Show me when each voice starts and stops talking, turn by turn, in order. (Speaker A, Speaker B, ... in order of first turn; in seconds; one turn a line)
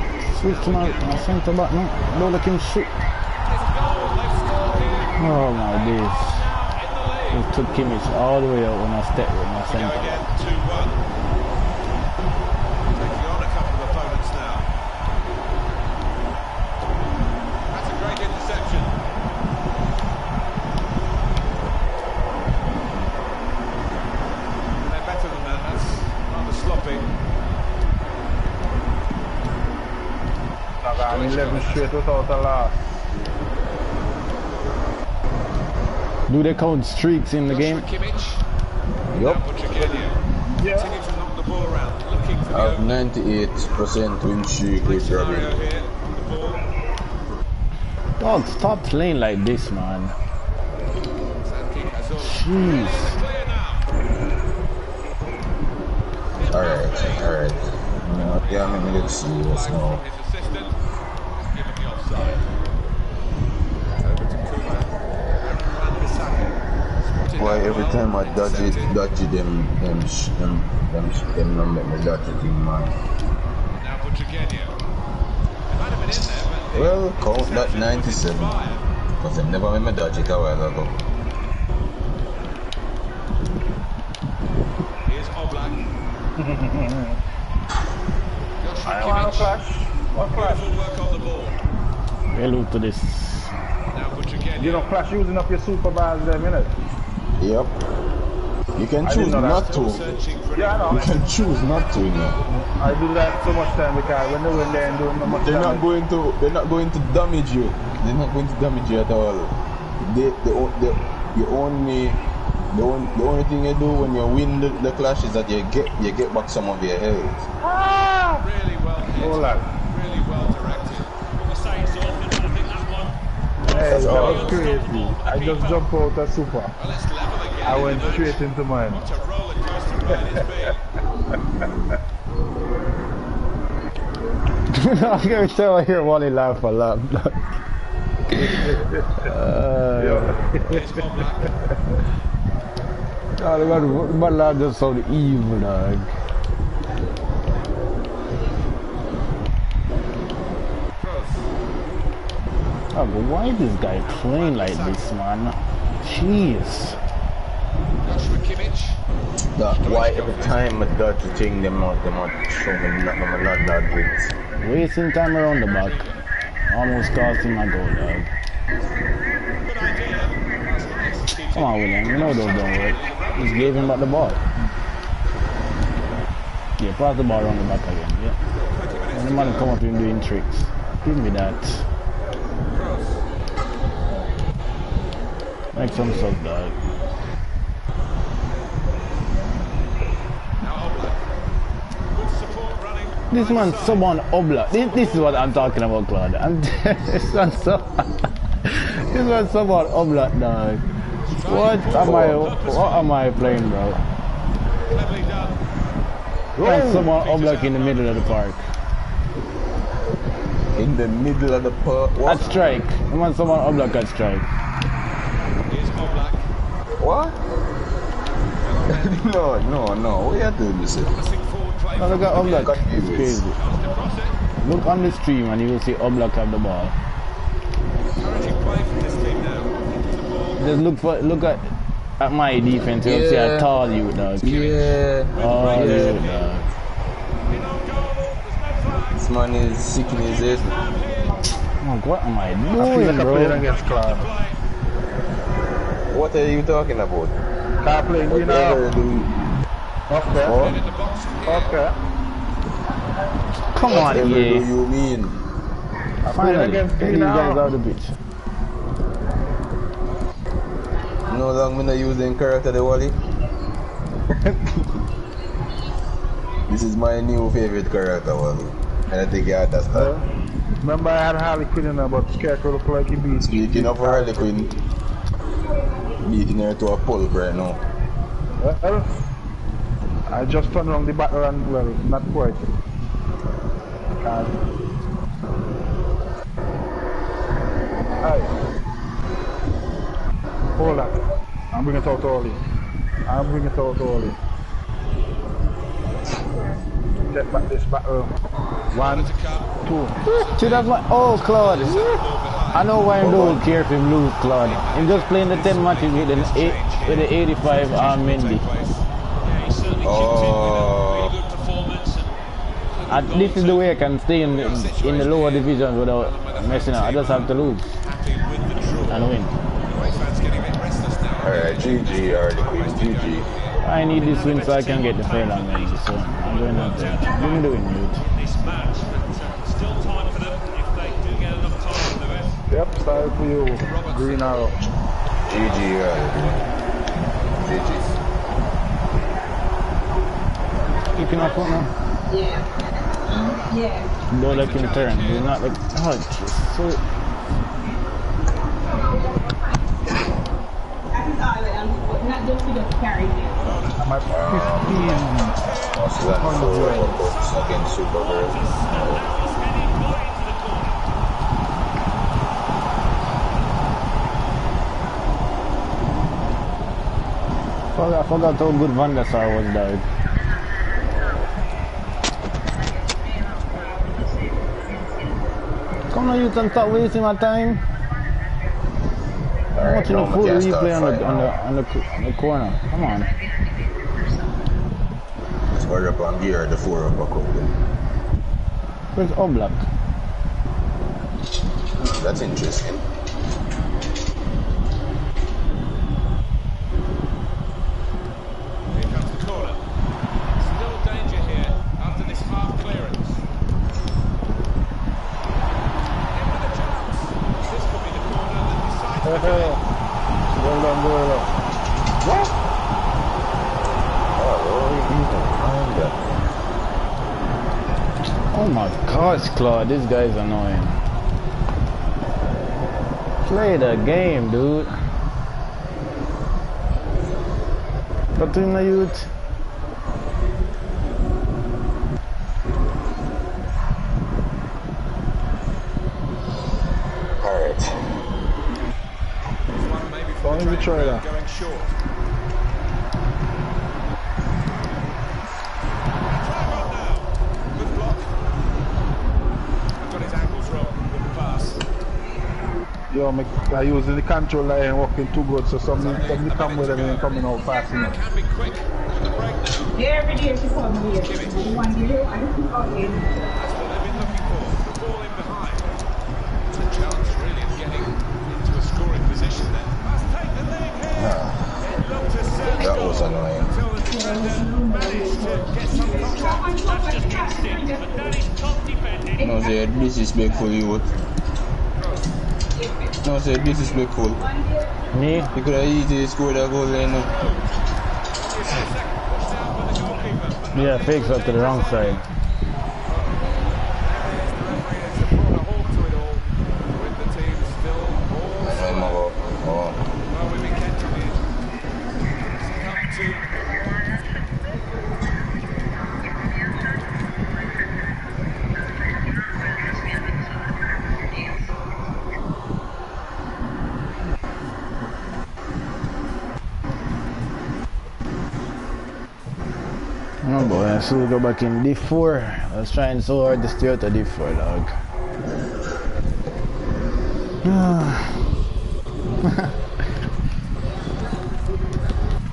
Speaker A: 0.3-1.4
Speaker B: 0.3-2.9
Speaker A: 2.1-2.4
Speaker A: 3.4-7.5
Speaker B: 5.2-6.5
Speaker B: 7.3-10.1
Speaker A: 9.7-11.0
Speaker A: 12.9-14.7
Speaker A: 17.7-18.9
Speaker A: 24.8-27.1
Speaker C: 30.8-32.8
Speaker A: 31.0-31.9
Speaker B: 36.3-37.9
Speaker A: 37.5-38.4
Speaker D: 39.1-39.4
Speaker A: 39.1-43.0
Speaker C: 40.5-40.9
Speaker D: 42.5-45.5
Speaker A: 44.8-46.6
Speaker B: 48.2-50.1
Speaker A: 51.4-53.8
Speaker B: 52.2-53.2
Speaker A: 56.3-57.4
Speaker D: 56.5-60.0
Speaker A: 58.1-60.8
Speaker A: 61.3-62.4
Speaker A: 64.0-68.9
Speaker D: 67.3-73.0
Speaker A: 73.7-74.8
Speaker A: 75.7-78.8
Speaker D: 76.7-78.6
Speaker D: 79.2-80.9
Speaker A: 85.0-85.9
Speaker C: 86.4-87.2
Speaker A: 88.6-89.6
Speaker C: 88.8-90.7
Speaker A: 90.1-91.6
Speaker B: 92.3-93.5
Speaker A: 93.9-94.9
Speaker C: 94.6-96.7
Speaker D: 97.4-97.8
Speaker D: 98.8-100.1
Speaker C: 99.0-99.7
Speaker A: 99.4-101.6
Speaker C: 100.5-101.0
Speaker D: 100.9-102.4
Speaker C: 102.5-105.8
Speaker A: 103.0-105.5
Speaker D: 105.4-117.5
Speaker C: 117.6-118.5
Speaker A: 118.4-121.2
Speaker C: 119.2-119.7
Speaker E: 121.3-125.8
Speaker C: 123.7-126.7
Speaker D: 123.7-124.6
Speaker A: 126.8-130.8
Speaker C: 127.6-129.1
Speaker B: 134.7-137.4
Speaker C: 138.9-139.3
Speaker B: 139.2-140.4
Speaker C: 140.0-140.8
Speaker A: 140.7-141.5
Speaker B: 143.4-146.1
Speaker A: 150.9-151.5
Speaker B: 152.9-156.9
Speaker A: 154.0-155.1
Speaker A: 158.0-159.0
Speaker D: 159.6-164.3
Speaker A: 159.7-160.7
Speaker B: 164.6-166.0
Speaker A: 165.6-166.2
Speaker B: 166.7-168.3
Speaker A: 169.6-174.1
Speaker B: 171.5-174.4
Speaker B: 176.8-178.4
Speaker A: 178.4-179.8
Speaker B: 179.1-181.8
Speaker A: 182.7-183.2
Speaker B: 185.7-186.7
Speaker A: 190.6-191.2
Speaker A: 192.1-194.1
Speaker B: 193.3-198.1
Speaker A: 194.7-195.8
Speaker B: 198.6-200.8
Speaker A: 201.2-203.1
Speaker B: 201.4-204.0
Speaker D: 201.9-202.5
Speaker A: 204.9-205.6
Speaker B: 206.6-208.6
Speaker D: 206.6-207.1
Speaker A: 206.9-208.4
Speaker D: 210.7-212.6
Speaker B: 212.2-214.4
Speaker A: 212.3-212.7
Speaker A: 215.7-216.4
Speaker D: 217.0-217.4
Speaker A: 218.5-219.3
Speaker D: 218.9-221.2
Speaker A: 221.1-224.4
Speaker B: 221.9-223.6
Speaker D: 222.3-223.4
Speaker B: 224.6-226.9
Speaker A: 228.2-230.7
Speaker B: 230.6-231.7
Speaker B: 232.2-234.7
Speaker D: 233.0-236.2
Speaker A: 234.4-236.5
Speaker B: 235.4-236.7
Speaker A: 237.5-239.2
Speaker D: 239.2-240.7
Speaker A: 240.1-241.5
Speaker B: 241.8-243.6
Speaker A: 242.7-244.6
Speaker C: 242.8-244.3
Speaker D: 246.1-247.4
Speaker C: 247.8-248.9
Speaker D: 248.2-249.6
Speaker C: 250.1-250.7
Speaker D: 250.4-250.8
Speaker A: 250.4-251.8
Speaker C: 251.5-251.9
Speaker B: 253.7-254.7
Speaker D: 253.8-255.4
Speaker C: 256.2-257.6
Speaker B: 256.3-258.1
Speaker D: 261.3-263.2
Speaker D: 266.7-270.1
Speaker C: 269.9-270.2
Speaker C: 270.8-274.5
Speaker D: 273.4-274.8
Speaker F: 275.8-276.1
Speaker D: 276.2-277.8
Speaker C: 278.6-279.1
Speaker C: 280.3-282.7
Speaker C: 284.2-284.5
Speaker C: 288.2-288.5
Speaker C: 290.8-291.2
Speaker C: 291.7-292.6
Speaker C: 293.2-294.4
Speaker C: 297.3-298.3
Speaker C: 298.9-299.3
Speaker A: 298.9-302.9
Speaker C: 299.8-300.2
Speaker B: 300.2-302.2
Speaker B: 302.7-308.6
Speaker D: 303.2-303.6
Speaker A: 304.6-309.0
Speaker E: 309.4-312.3
Speaker D: 310.0-311.4
Speaker A: 312.9-319.3
Speaker B: 313.1-317.9
Speaker B: 319.1-319.5
Speaker A: 319.9-323.8
Speaker D: 321.4-323.5
Speaker B: 323.8-328.2
Speaker E: 324.1-332.6
Speaker F: 327.2-327.5
Speaker C: 332.7-334.8
Speaker A: 333.7-338.1
Speaker D: 335.4-336.6
Speaker D: 337.5-338.1
Speaker A: 341.1-341.8
Speaker B: 341.1-341.9
Speaker F: 342.3-344.1
Speaker B: 344.3-347.0
Speaker A: 344.4-345.6
Speaker F: 348.8-350.2
Speaker F: 351.1-353.8
Speaker A: 353.5-358.1
Speaker C: 354.0-355.6
Speaker D: 354.3-359.2
Speaker C: 356.4-357.2
Speaker E: 358.1-361.0
Speaker B: 367.9-370.0
Speaker F: 372.9-375.4
Speaker B: 376.1-377.8
Speaker D: 379.7-381.6
Speaker B: 379.8-383.3
Speaker F: 383.0-384.5
Speaker D: 385.7-387.8
Speaker B: 389.1-389.8
Speaker D: 392.0-393.0
Speaker A: 398.9-399.8
Speaker A: 400.6-403.4
Speaker A: 406.3-409.8
Speaker C: 409.2-409.8
Speaker C: 410.6-411.5
Speaker C: 412.2-412.5
Speaker D: 414.4-416.4
Speaker B: 418.5-421.0
Speaker B: 423.4-425.0
Speaker B: 428.4-429.3
Speaker D: 437.4-438.0
Speaker A: 439.7-441.9
Speaker C: 440.4-441.2
Speaker A: 446.2-448.4
Speaker A: 450.0-451.8
Speaker C: 453.1-458.2
Speaker A: 455.9-459.9
Speaker F: 459.9-463.5
Speaker A: 461.1-461.8
Speaker A: 463.6-465.9
Speaker A: 466.7-476.7
Speaker D: 471.1-471.7
Speaker D: 472.8-473.7
Speaker F: 474.1-478.4
Speaker E: 475.7-479.6
Speaker F: 479.4-480.2
Speaker D: 479.4-481.1
Speaker A: 482.0-482.2
Speaker F: 482.7-483.2
Speaker D: 483.2-484.4
Speaker F: 484.4-485.5
Speaker B: 485.1-485.5
Speaker D: 485.5-487.3
Speaker A: 486.9-487.8
Speaker A: 488.3-492.2
Speaker B: 490.7-492.2
Speaker A: 493.1-493.4
Speaker A: 494.0-499.2
Speaker D: 498.6-500.0
Speaker A: 500.3-501.5
Speaker A: 502.6-503.5
Speaker B: 520.4-524.9
Speaker D: 520.6-520.9
Speaker B: 527.6-528.3